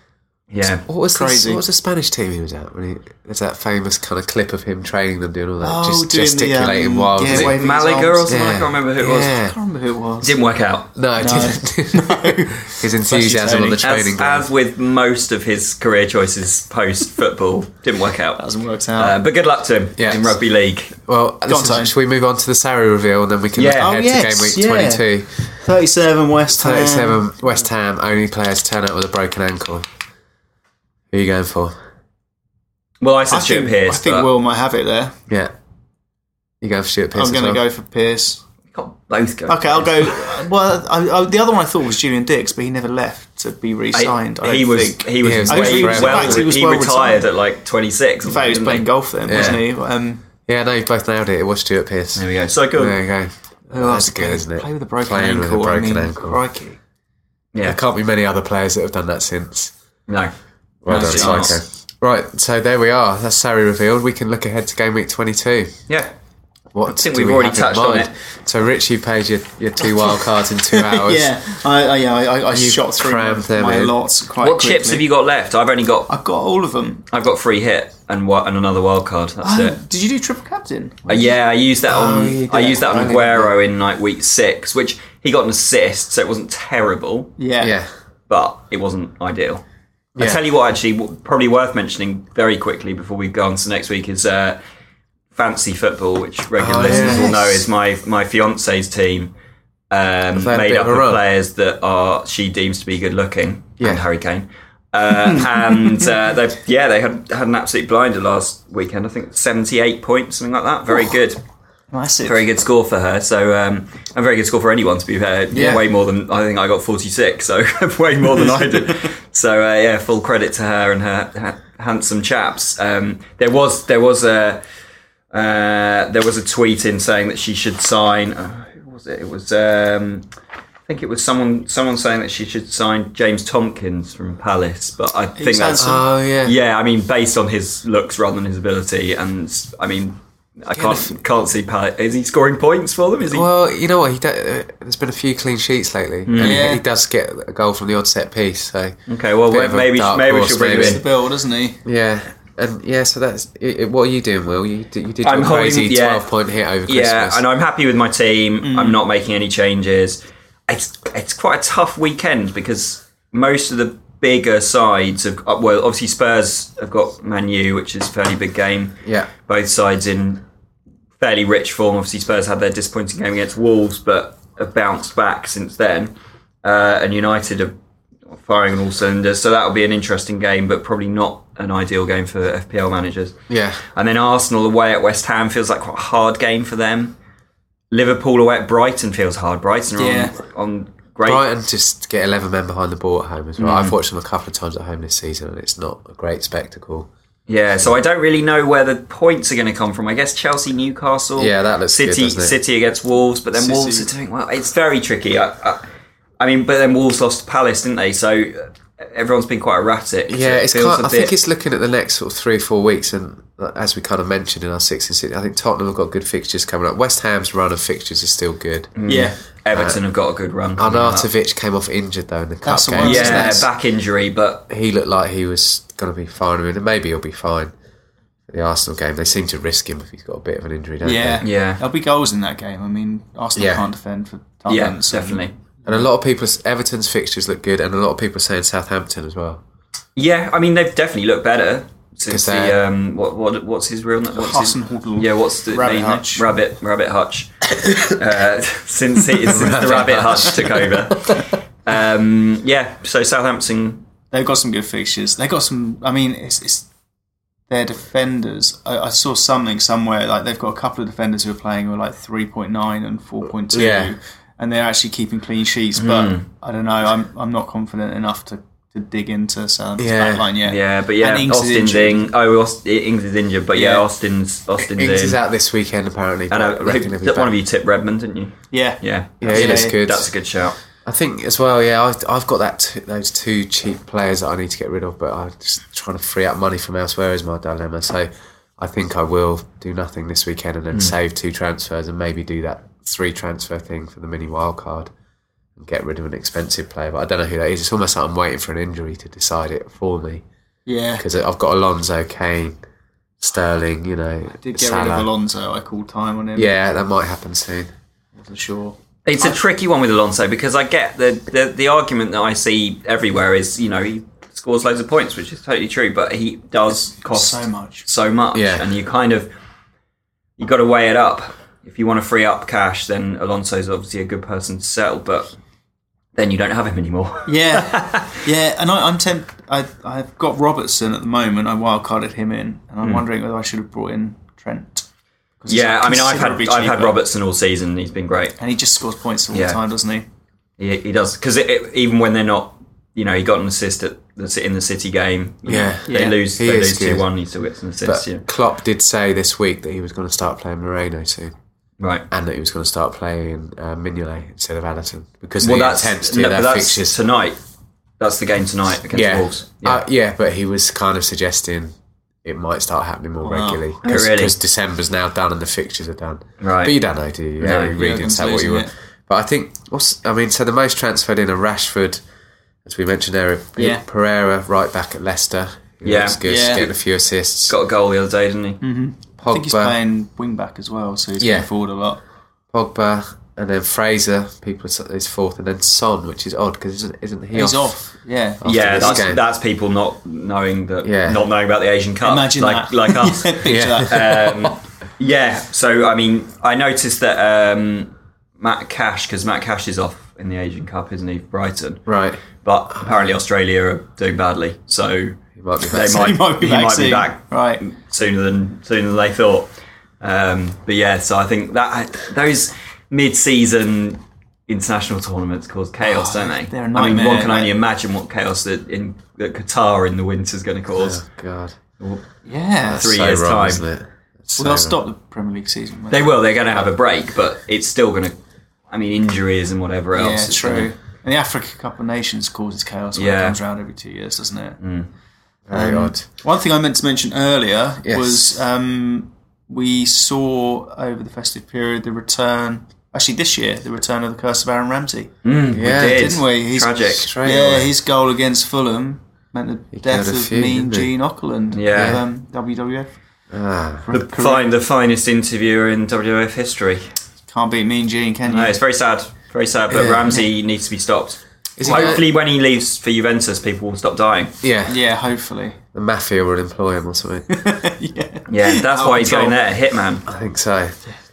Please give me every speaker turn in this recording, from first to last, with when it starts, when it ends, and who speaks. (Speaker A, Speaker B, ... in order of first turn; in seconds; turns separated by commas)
Speaker A: 0.5-0.8, Speaker B: 0.8-7.5, Speaker C: 1.1-1.6, Speaker C: 5.6-8.3, Speaker A: 7.3-9.3, Speaker B: 8.3-9.5, Speaker C: 9.1-10.3, Speaker A: 10.2-11.4, Speaker B: 10.9-14.5, Speaker C: 11.2-13.8, Speaker A: 13.8-18.4, Speaker C: 18.4-19.2, Speaker A: 19.0-20.9, Speaker B: 20.0-20.4, Speaker B: 21.1-25.4, Speaker C: 21.5-21.9, Speaker A: 23.6-23.9, Speaker C: 23.8-27.2, Speaker B: 26.5-29.9, Speaker B: 31.1-31.7, Speaker A: 33.0-34.3, Speaker C: 33.3-35.1, Speaker B: 36.6-37.6, Speaker C: 37.1-38.4, Speaker A: 38.7-40.1, Speaker C: 39.5-47.2, Speaker A: 43.9-49.6, Speaker B: 45.2-46.5, Speaker C: 48.2-50.2, Speaker B: 49.3-49.6, Speaker B: 50.5-56.4, Speaker A: 52.1-53.0, Speaker C: 53.7-56.8, Speaker A: 57.5-57.8, Speaker B: 57.6-59.7, Speaker B: 60.8-65.8, Speaker A: 60.9-61.6, Speaker C: 60.9-61.4, Speaker B: 66.7-71.3, Speaker A: 66.8-68.1, Speaker C: 70.7-75.0, Speaker B: 72.5-73.9, Speaker A: 74.4-76.1, Speaker C: 76.1-77.1, Speaker A: 77.1-79.8, Speaker C: 79.4-81.4, Speaker A: 81.1-87.3, Speaker B: 81.9-83.5, Speaker C: 87.4-87.8, Speaker B: 87.6-87.9, Speaker A: 88.3-89.6, Speaker A: 90.2-94.6, Speaker A: 95.3-99.3, Speaker B: 96.6-97.5, Speaker C: 96.8-97.4, Speaker A: 99.9-111.4, Speaker B: 100.3-101.2, Speaker C: 105.4-105.9, Speaker C: 111.9-112.4, Speaker A: 112.2-124.6, Speaker B: 115.5-115.8, Speaker A: 125.3-130.2, Speaker A: 130.9-143.5, Speaker C: 135.3-136.0, Speaker B: 135.8-136.6, Speaker C: 140.8-141.2, Speaker B: 143.3-149.0, Speaker A: 146.2-146.7, Speaker C: 146.4-146.8, Speaker A: 149.1-151.0, Speaker B: 149.5-151.0, Speaker C: 150.8-151.8, Speaker B: 151.8-157.4, Speaker A: 155.2-156.3, Speaker A: 156.8-170.4, Speaker C: 158.6-159.0, Speaker A: 171.2-177.7, Speaker A: 178.3-183.3, Speaker B: 183.5-183.8, Speaker A: 183.9-187.2, Speaker A: 187.9-191.4, Speaker C: 190.0-190.3, Speaker B: 191.2-197.1, Speaker A: 193.6-193.9, Speaker A: 197.5-205.9, Speaker B: 201.4-202.6, Speaker C: 203.5-204.1, Speaker A: 206.4-211.3, Speaker B: 210.3-218.9, Speaker A: 218.9-221.3, Speaker C: 219.1-219.3, Speaker B: 219.7-220.0, Speaker B: 220.8-223.7, Speaker C: 222.6-223.6, Speaker A: 223.0-224.7, Speaker B: 224.7-227.7, Speaker B: 228.5-231.4, Speaker C: 231.0-236.0, Speaker A: 231.4-231.8, Speaker B: 233.5-233.8, Speaker A: 234.7-235.5, Speaker B: 235.8-239.6, Speaker A: 240.2-254.1, Speaker B: 242.3-242.8, Speaker C: 244.3-246.4, Speaker B: 249.4-251.4, Speaker C: 254.3-256.9, Speaker C: 257.7-272.3, Speaker B: 263.7-264.1, Speaker A: 266.0-266.4, Speaker B: 270.0-270.5, Speaker A: 270.6-275.4, Speaker C: 273.7-274.0, Speaker B: 274.8-277.5, Speaker A: 276.5-280.8, Speaker C: 278.7-280.0, Speaker B: 279.4-280.3, Speaker B: 281.0-295.1, Speaker B: 295.8-300.4, Speaker C: 300.9-301.2, Speaker B: 301.2-302.8, Speaker B: 303.4-305.3, Speaker C: 304.6-306.8, Speaker B: 306.6-307.9, Speaker C: 308.4-309.5, Speaker A: 309.2-319.5, Speaker C: 317.2-318.1, Speaker B: 318.5-318.9, Speaker A: 320.6-325.5, Speaker A: 326.4-328.3, Speaker C: 327.5-335.0, Speaker C: 335.6-337.2, Speaker A: 335.7-338.6, Speaker C: 338.6-340.2, Speaker A: 339.5-339.8, Speaker A: 340.8-348.4, Speaker B: 345.7-347.2, Speaker C: 346.1-346.4, Speaker B: 348.0-351.5, Speaker A: 352.0-352.2, Speaker B: 352.3-357.2, Speaker A: 355.6-357.6, Speaker A: 358.2-360.0, Speaker B: 359.1-361.9, Speaker B: 362.4-372.2, Speaker C: 363.4-363.8, Speaker A: 364.0-364.5, Speaker A: 366.6-366.9, Speaker A: 367.6-368.0, Speaker C: 367.9-368.9, Speaker B: 372.8-377.7, Speaker C: 373.8-374.0, Speaker A: 376.0-376.4, Speaker C: 376.4-376.9, Speaker A: 377.7-378.8, Speaker C: 378.8-382.2, Speaker B: 379.4-379.9, Speaker B: 381.4-381.7, Speaker B: 382.7-387.9, Speaker C: 387.5-389.3, Speaker B: 388.6-389.4, Speaker A: 388.6-402.1, Speaker B: 391.0-391.4, Speaker C: 392.2-394.7, Speaker B: 393.6-394.1, Speaker B: 402.1-402.4, Speaker A: 402.6-409.7, Speaker B: 405.6-406.3, Speaker C: 406.0-407.8, Speaker A: 410.2-421.2, Speaker C: 416.0-417.7, Speaker B: 420.9-421.8, Speaker C: 422.4-423.0, Speaker B: 422.8-425.0, Speaker A: 423.0-423.8, Speaker C: 424.6-426.4, Speaker A: 426.1-428.4, Speaker A: 428.9-430.9, Speaker C: 430.1-434.8, Speaker A: 433.1-433.6, Speaker A: 434.8-435.1, Speaker B: 435.7-436.2, Speaker C: 435.7-453.1, Speaker B: 438.0-438.6, Speaker A: 445.4-447.3, Speaker B: 445.7-446.3, Speaker B: 447.1-447.9, Speaker B: 449.9-451.1, Speaker A: 451.7-452.2, Speaker B: 451.9-452.2, Speaker B: 453.5-454.1, Speaker C: 454.0-454.7, Speaker A: 454.1-457.1, Speaker C: 457.5-458.7, Speaker A: 458.4-464.5, Speaker B: 459.9-460.4, Speaker B: 461.8-462.2, Speaker C: 461.9-462.2, Speaker B: 464.6-465.0, Speaker C: 464.9-465.8, Speaker B: 465.9-467.5, Speaker C: 467.5-469.6, Speaker A: 468.5-470.2, Speaker B: 470.2-471.0